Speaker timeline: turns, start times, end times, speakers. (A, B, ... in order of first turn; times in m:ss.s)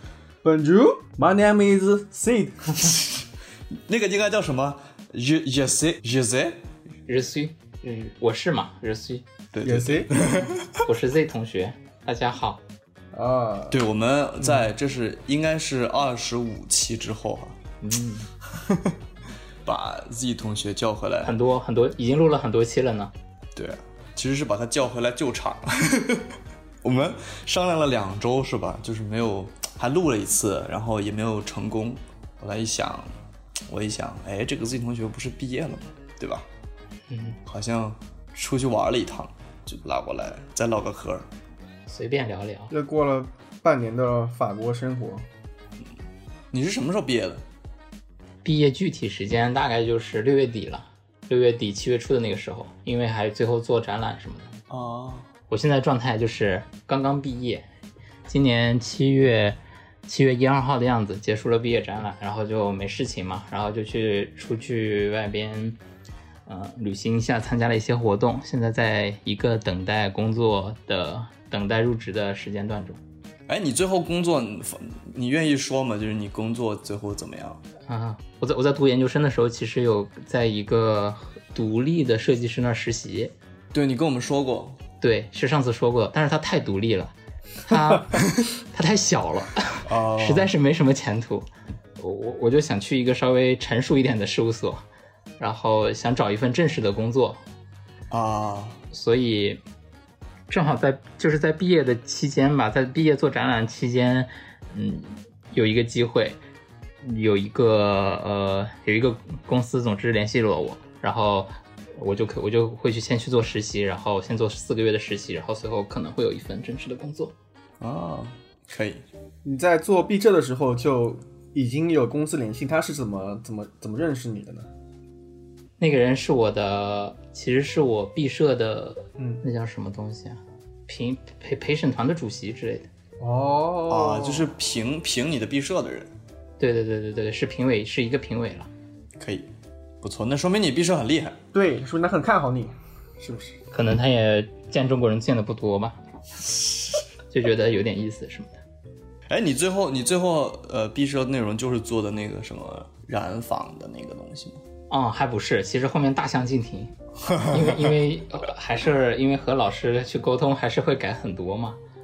0:00.4-0:02.9 A
0:02.8-0:06.6 B
0:07.1-0:09.2 C
0:09.5-0:10.8 B
0:09.6-0:10.1 A
0:10.8-0:12.6 C
0:13.1-0:13.8 A
0:13.7-0:17.6 B
0:17.8-0:18.3 C
0:18.6-0:18.9 B
0:19.6-0:21.3 B
0:21.2-0:23.1 C
0:23.5-0:33.1 B
0:33.7-0:36.4 B
0:37.1-0:37.4 C
0:37.4-0:41.3 B
0:41.9-0:42.7 C
0:42.7-0:45.2 A
0:46.5-0:47.4 B
0:48.4-0:54.5 C
0:54.7-0:55.3 B
0:55.5-0:57.6 C
0:58.3-1:05.8 C
1:06.5-1:13.0 C
1:13.5-1:17.6 B
1:17.8-1:23.3 C
1:23.7-1:24.8 B
1:25.0-1:27.1 C
1:27.6-1:31.5 C
1:28.1-1:28.4 B
1:29.8-1:30.5 B
1:32.0-1:34.8 C
1:35.4-1:37.4 C
1:38.1-1:38.8 B
1:38.9-1:39.6 C
1:40.5-1:46.4 C
1:47.0-1:57.3 C
1:57.8-1:59.0 B
1:59.4-2:04.7 A
2:05.8-2:12.9 C
2:09.2-2:09.4 A
2:13.2-2:14.5 A
2:13.9-2:16.1 B
2:16.6-2:18.7 C
2:19.2-2:19.5 B
2:20.0-2:21.4 B
2:21.5-2:23.6 A
2:23.7-2:26.0 C
2:27.3-2:28.6 C
2:29.3-2:34.6 B
2:34.9-2:41.8 C
2:37.3-2:37.8 B